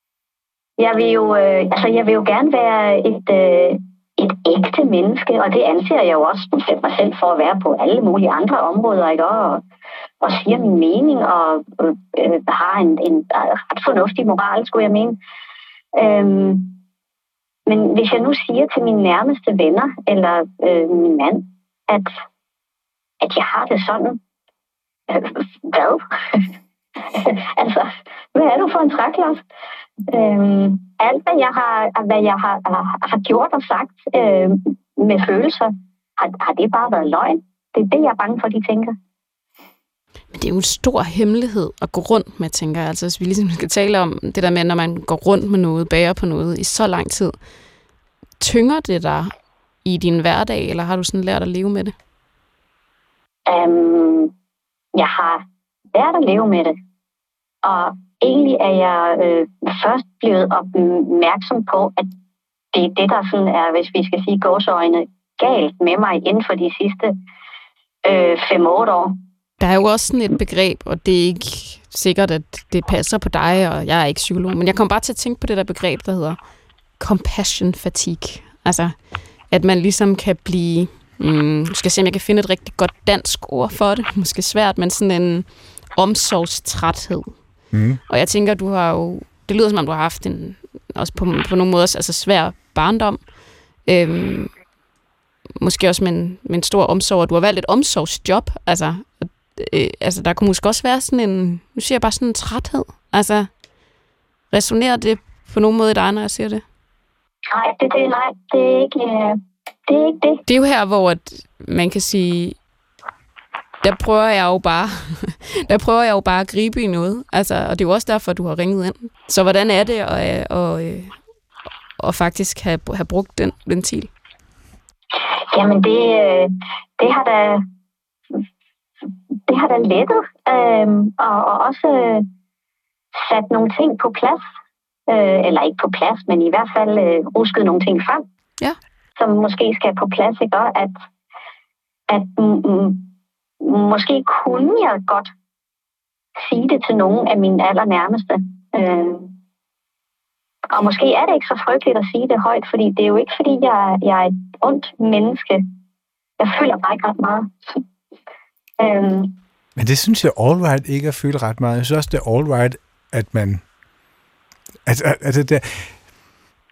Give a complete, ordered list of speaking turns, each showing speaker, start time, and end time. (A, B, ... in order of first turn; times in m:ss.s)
0:00.8-0:09.6 A
0:10.2-0:15.2 A
0:16.0-0:16.8 A
0:17.7-0:22.2 A
0:23.2-0:24.2 A
0:25.1-0:26.5 A
0:27.1-0:29.4 A
0:30.1-0:38.9 A
0:40.3-0:47.4 B
0:48.4-0:49.3 B
0:49.8-0:52.0 B
0:53.5-0:54.3 A
0:54.9-0:56.7 A
0:57.6-1:02.1 A
1:02.7-1:07.1 A
1:08.0-1:09.2 A
1:09.6-1:16.4 B
1:17.0-1:19.0 B
1:19.5-1:27.4 B
1:27.7-1:28.0 C
1:28.1-1:33.2 B
1:33.9-1:34.5 B
1:35.6-1:43.5 B
1:44.5-1:46.6 B
1:47.5-1:50.4 A
1:50.5-1:52.6 B
1:53.8-2:01.2 B
2:02.0-2:04.1 B
2:05.5-2:07.6 A
2:09.5-2:12.3 A
2:13.1-2:14.4 A
2:15.1-2:18.2 A
2:19.2-2:21.0 A
2:22.1-2:23.1 A
2:23.6-2:25.3 A
2:26.4-2:29.3 A
2:30.7-2:35.7 A
2:36.4-2:37.8 A
2:38.8-2:39.4 A
2:39.8-2:43.6 C
2:44.9-2:46.0 C